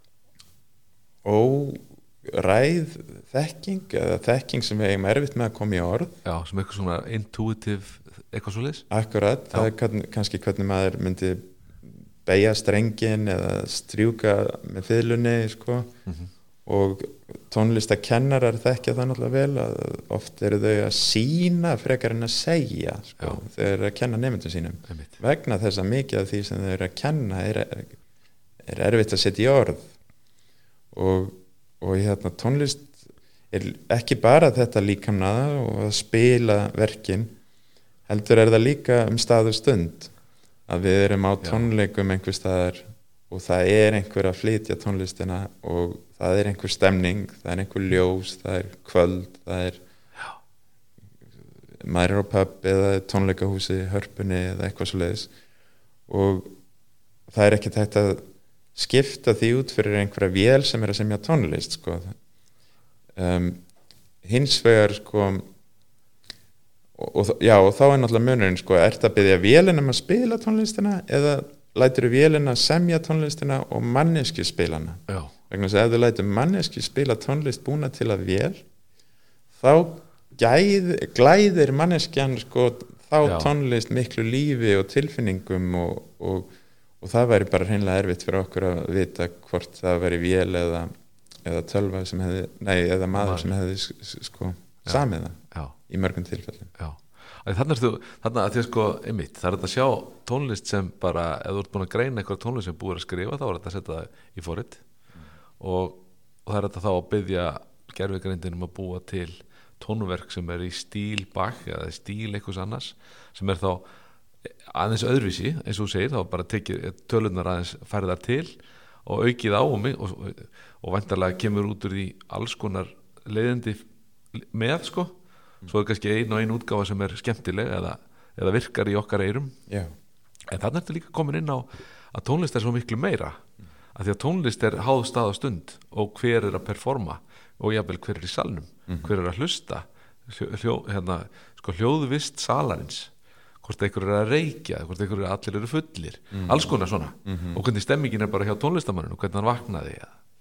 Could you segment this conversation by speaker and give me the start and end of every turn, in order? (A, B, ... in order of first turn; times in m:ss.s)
0:01.2-0:06.2 A
0:06.2-0:08.9 B
0:08.9-0:15.9 A
0:16.6-0:28.0 A
0:24.9-0:25.2 B
0:28.6-0:29.9 A
0:30.9-0:37.4 A
0:38.1-0:40.1 A
0:40.7-0:49.8 A
0:41.4-0:41.7 B
0:51.7-0:55.3 A
0:56.1-0:56.5 A
0:57.3-0:58.2 A
0:58.7-1:02.1 A
1:03.1-1:03.6 A
1:04.2-1:05.4 A
1:06.9-1:18.6 A
1:19.6-1:30.9 A
1:23.2-1:23.5 B
1:31.4-1:36.7 A
1:33.2-1:33.5 B
1:34.9-1:35.7 B
1:36.8-1:44.8 B
1:45.6-1:53.8 B
1:54.6-2:09.6 B
2:10.5-2:13.4 B
2:13.9-2:23.1 B
2:23.6-2:30.1 B
2:26.3-2:26.7 A
2:27.2-2:27.6 A